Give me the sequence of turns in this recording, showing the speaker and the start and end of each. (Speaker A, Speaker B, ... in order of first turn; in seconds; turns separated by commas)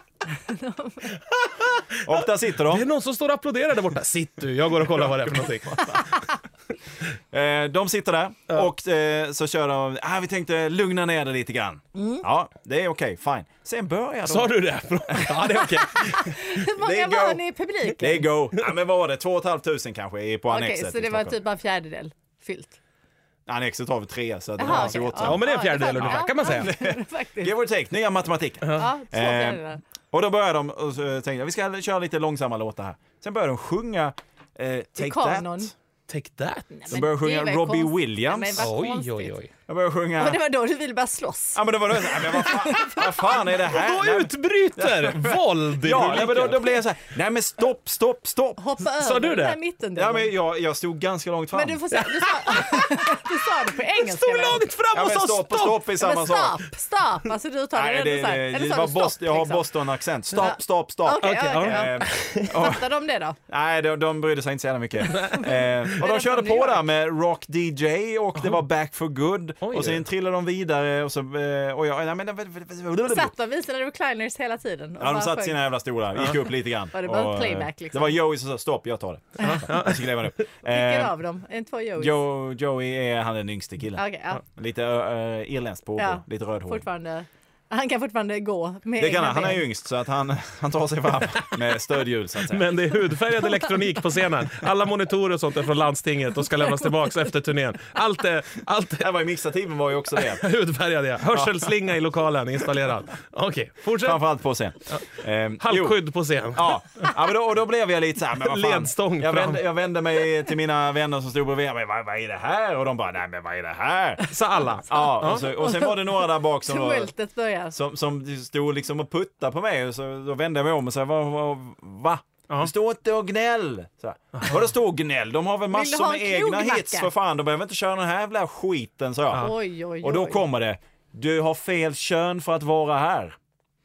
Speaker A: 0.4-1.1, Speaker B: 1.3-6.2, Speaker C: 2.0-2.9, Speaker C: 5.3-6.0, Speaker C: 7.3-14.6, Speaker A: 11.9-12.2, Speaker B: 14.2-16.5, Speaker C: 15.1-15.5, Speaker A: 15.4-18.3, Speaker C: 16.7-17.4, Speaker C: 17.9-21.4, Speaker A: 20.5-22.8, Speaker C: 23.5-35.7, Speaker A: 24.6-27.5, Speaker B: 24.6-26.7, Speaker B: 28.6-28.9, Speaker A: 28.8-29.8, Speaker A: 35.0-35.7, Speaker B: 36.1-37.0, Speaker A: 36.7-39.4, Speaker C: 36.9-38.7, Speaker B: 38.6-39.5, Speaker C: 39.7-40.4, Speaker A: 40.2-43.5, Speaker C: 41.5-48.6, Speaker B: 43.5-46.8, Speaker A: 48.6-50.3, Speaker B: 49.0-49.6, Speaker C: 50.0-51.8, Speaker A: 51.5-54.6, Speaker B: 51.9-55.9, Speaker C: 54.9-56.6, Speaker A: 56.0-59.6, Speaker C: 57.7-62.9, Speaker B: 60.3-60.6, Speaker A: 60.4-63.4, Speaker B: 61.2-62.7, Speaker C: 63.5-73.3, Speaker B: 65.1-66.0, Speaker A: 65.2-66.8, Speaker B: 69.6-70.0, Speaker A: 73.0-75.6, Speaker C: 75.0-81.1, Speaker A: 76.9-78.2, Speaker B: 79.4-80.3, Speaker A: 80.6-82.2, Speaker C: 82.0-86.8, Speaker A: 84.0-84.4, Speaker A: 86.0-89.7, Speaker C: 89.0-92.7, Speaker B: 92.4-99.1, Speaker A: 93.3-94.0, Speaker C: 99.0-100.5, Speaker B: 100.1-104.2, Speaker C: 101.3-101.7, Speaker C: 104.0-106.0, Speaker B: 104.9-106.7, Speaker C: 106.5-114.3, Speaker B: 108.4-109.6, Speaker B: 114.3-115.5, Speaker C: 114.8-117.1, Speaker A: 114.9-117.7, Speaker C: 117.7-129.5, Speaker A: 125.7-127.1, Speaker A: 129.3-130.4, Speaker C: 130.0-133.3